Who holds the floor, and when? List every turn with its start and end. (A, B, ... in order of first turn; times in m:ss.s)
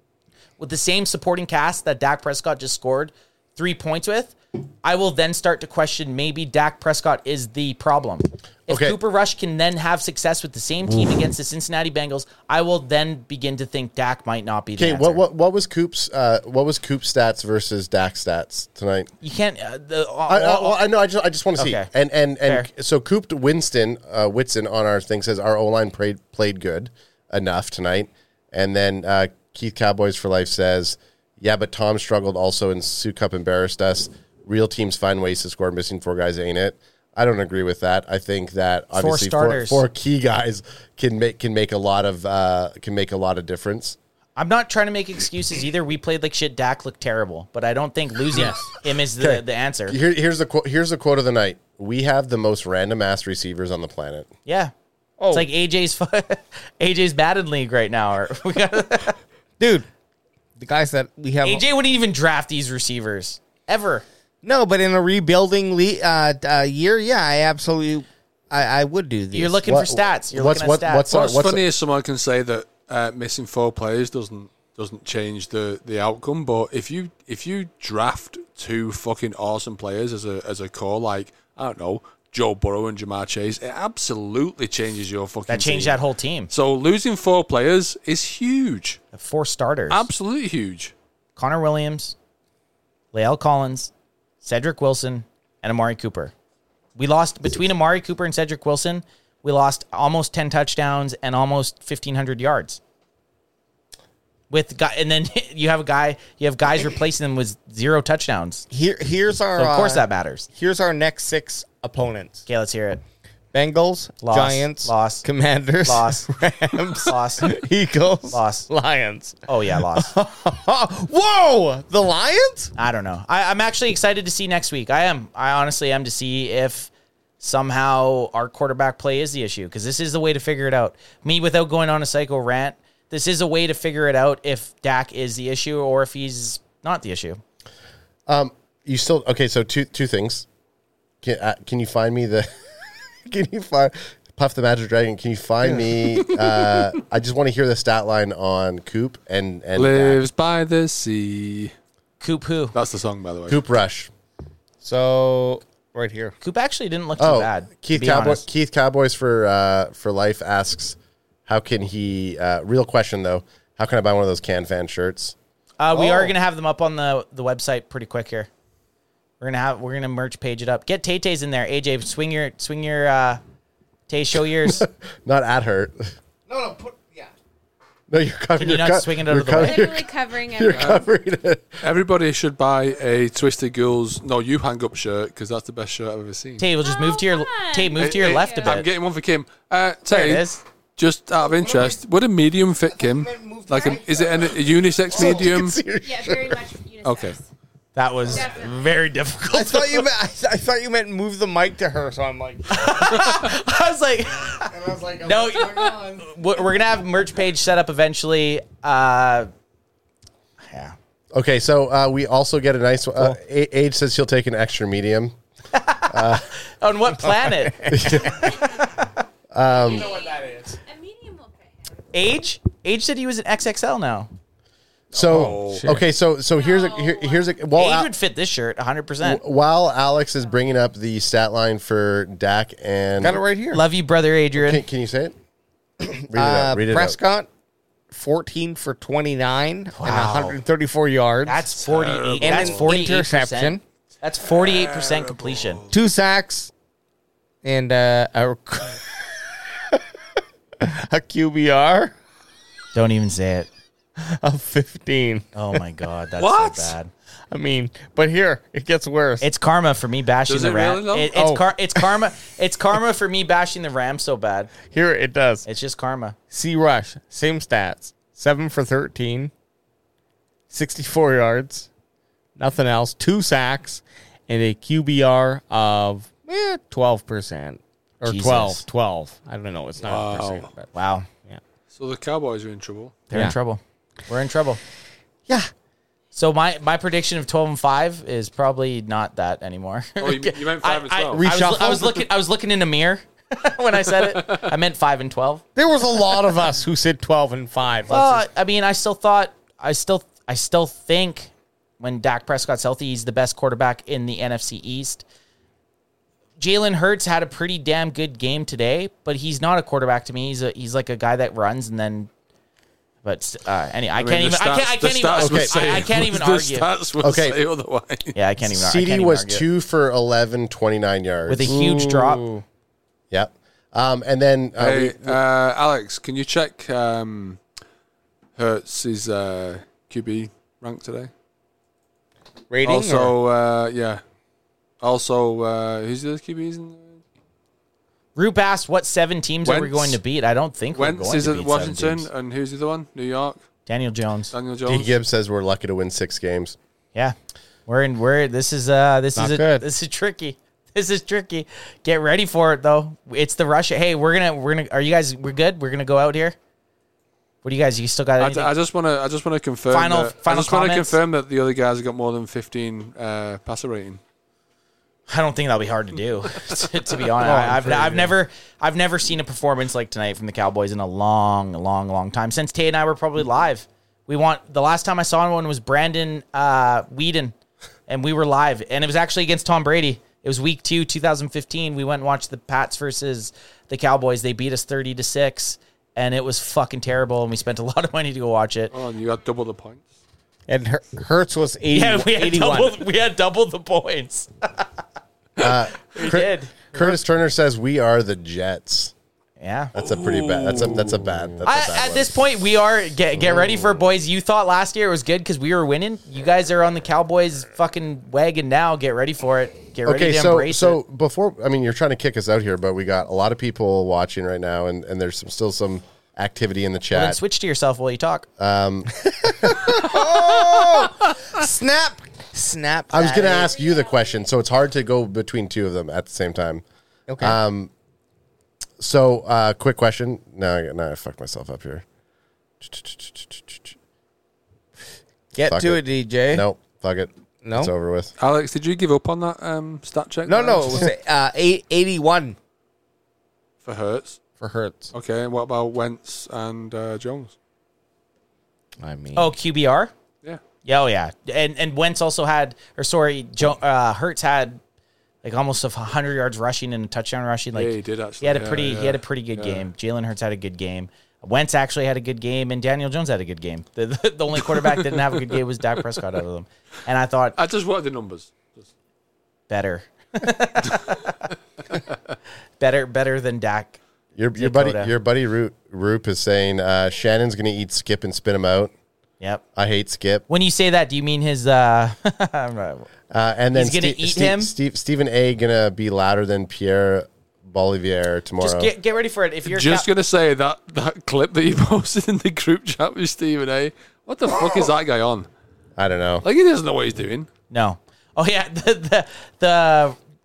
0:00.6-0:15.2 A
0:08.7-0:09.0 B
0:14.8-0:19.1 B
0:19.2-0:20.8 A
0:20.3-0:44.0 B
0:21.6-0:21.9 A
0:39.0-0:39.8 A
0:44.4-0:50.0 A
0:49.2-0:54.3 B
0:54.4-0:54.7 A
0:55.2-0:55.5 C
0:55.3-0:59.2 A
0:59.6-0:59.9 C
1:00.6-1:01.6 C
1:01.4-1:04.0 A
1:04.4-1:09.6 C
1:09.3-1:11.1 A
1:09.7-1:11.6 B
1:11.1-1:29.0 D
1:25.5-1:26.5 A
1:29.1-1:30.1 A
1:29.9-1:30.9 D
1:31.4-1:32.1 A
1:33.1-1:33.9 A
1:34.4-1:36.3 A
1:37.0-1:42.8 A
1:44.5-1:48.6 A
1:48.7-1:52.4 C
1:49.6-1:50.5 A
1:52.5-1:53.0 A
1:53.5-2:02.7 C
1:54.2-1:55.2 A
1:55.8-1:56.3 A
1:56.9-1:57.6 A
1:58.3-1:58.7 A
1:59.5-2:00.1 A
2:02.8-2:17.4 A
2:18.3-2:20.4 B
2:21.2-2:22.7 B
2:23.2-2:30.2 B
2:26.1-2:26.8 D
2:29.8-2:31.7 D
2:32.2-2:32.7 A
2:32.7-2:33.6 D
2:33.5-2:34.1 B
2:34.8-2:36.3 C
2:36.4-2:38.4 A
2:37.2-2:41.0 B
2:41.5-2:45.3 B
2:45.8-2:48.5 A
2:45.9-2:46.3 B
2:49.4-2:53.4 A
2:54.1-2:54.8 A
2:54.6-2:56.1 B
2:56.5-2:57.3 C
2:58.1-3:01.8 B
2:58.6-3:00.0 A
2:59.6-3:01.0 E
3:00.7-3:01.0 D
3:01.8-3:06.6 D
3:06.6-3:08.9 A
3:06.8-3:08.8 E
3:08.0-3:10.4 D
3:10.1-3:10.6 A
3:11.0-3:15.8 D
3:11.6-3:12.0 C
3:12.9-3:16.3 C
3:15.1-3:16.6 B
3:16.0-3:17.5 E
3:17.0-3:17.4 D
3:17.9-3:20.1 A
3:18.3-3:18.9 E
3:19.5-3:23.1 C
3:22.7-3:29.5 A
3:24.7-3:26.3 C
3:30.7-3:30.9 A
3:31.3-3:35.3 B
3:35.7-3:39.0 A
3:36.1-3:36.4 B
3:37.2-3:38.3 C
3:37.9-3:38.9 B
3:39.5-3:40.1 B
3:39.7-3:42.0 E
3:40.3-3:40.6 C
3:42.1-3:44.3 A
3:45.1-3:45.9 D
3:45.1-3:48.1 B
3:45.3-3:46.0 C
3:46.6-3:47.6 E
3:47.8-3:49.4 A
3:49.2-3:53.4 B
3:53.2-3:53.8 C
3:53.7-3:54.8 A
3:54.6-3:55.3 B
3:56.0-3:57.5 C
3:56.3-3:57.2 B
3:58.1-4:01.7 C
3:59.9-4:00.6 A
4:01.4-4:05.8 A
4:01.9-4:02.9 D
4:02.4-4:03.8 C
4:04.5-4:06.0 D
4:05.9-4:06.7 C
4:07.6-4:09.0 C
4:09.7-4:10.0 C
4:10.8-4:12.1 C
4:12.9-4:13.7 A
4:14.2-4:15.8 C
4:15.5-4:17.1 A
4:16.4-4:16.9 D
4:17.5-4:19.5 C
4:19.4-4:24.7 A
4:20.5-4:21.3 D
4:21.3-4:22.1 C
4:24.9-4:25.6 C
4:25.6-4:26.4 A
4:26.5-4:29.5 C
4:30.7-4:31.9 C
4:32.6-4:40.9 C
4:38.2-4:38.8 A
4:40.0-4:40.7 D
4:40.9-4:41.3 A
4:41.9-4:43.2 D
4:43.3-4:44.8 A
4:46.3-4:55.6 A
4:50.2-4:51.4 D
4:51.3-4:52.2 C
4:54.3-4:54.7 D
4:55.8-4:58.4 C
4:58.1-5:05.2 A
5:06.6-5:12.3 A
5:13.2-5:16.9 A
5:14.2-5:18.4 D
5:15.4-5:15.8 B
5:17.2-5:17.6 B
5:18.3-5:19.6 A
5:18.6-5:21.8 B
5:21.5-5:22.4 A
5:21.6-5:22.6 C
5:23.3-5:25.4 B
5:24.8-5:27.6 D
5:28.6-5:31.3 D
5:32.7-5:33.3 C
5:32.8-5:34.2 D
5:35.0-5:37.2 D
5:38.4-5:42.3 A
5:39.6-5:40.2 D
5:40.9-5:43.6 D
5:43.9-5:44.5 A
5:44.5-5:45.1 D
5:44.8-5:46.8 B
5:47.9-5:56.5 A
5:49.4-5:49.8 C
5:57.6-5:58.7 A
5:58.4-6:04.2 D
5:59.9-6:01.2 A
6:05.3-6:17.5 A
6:07.4-6:08.4 C
6:18.1-6:28.9 A
6:28.9-6:30.1 D
6:30.7-6:32.9 C
6:31.9-6:34.9 A
6:35.6-6:39.1 B
6:36.1-6:36.7 A
6:36.9-6:37.2 D
6:39.6-6:39.9 A
6:39.9-6:42.3 B
6:40.0-6:41.6 D
6:41.6-6:51.0 A
6:50.0-6:57.4 B
6:57.1-6:58.5 A
6:58.6-7:00.3 B
6:59.6-7:03.8 C
7:03.1-7:06.8 B
7:07.3-7:07.6 C
7:07.4-7:07.9 B
7:09.0-7:12.0 B
7:12.8-7:13.9 B
7:15.5-7:16.7 C
7:15.6-7:18.3 B
7:17.6-7:17.9 C
7:18.4-7:21.0 D
7:20.4-7:22.6 C
7:23.8-7:24.4 D
7:24.6-7:25.1 C
7:25.1-7:27.5 D
7:29.0-7:29.5 C
7:29.4-7:30.1 A
7:30.8-7:34.8 A
7:35.4-7:47.6 A
7:37.7-7:39.8 D
7:44.7-7:45.4 D
7:47.6-7:48.9 D
7:49.7-7:51.3 A
7:52.8-7:54.0 A
7:54.4-7:58.9 B
7:54.6-7:55.1 A
7:59.8-8:00.4 B
8:00.5-8:03.1 A
8:03.3-8:08.9 B
8:03.7-8:04.7 A
8:08.6-8:10.1 A
8:09.6-8:15.5 D
8:16.0-8:16.4 B
8:16.4-8:17.5 D
8:17.7-8:20.2 A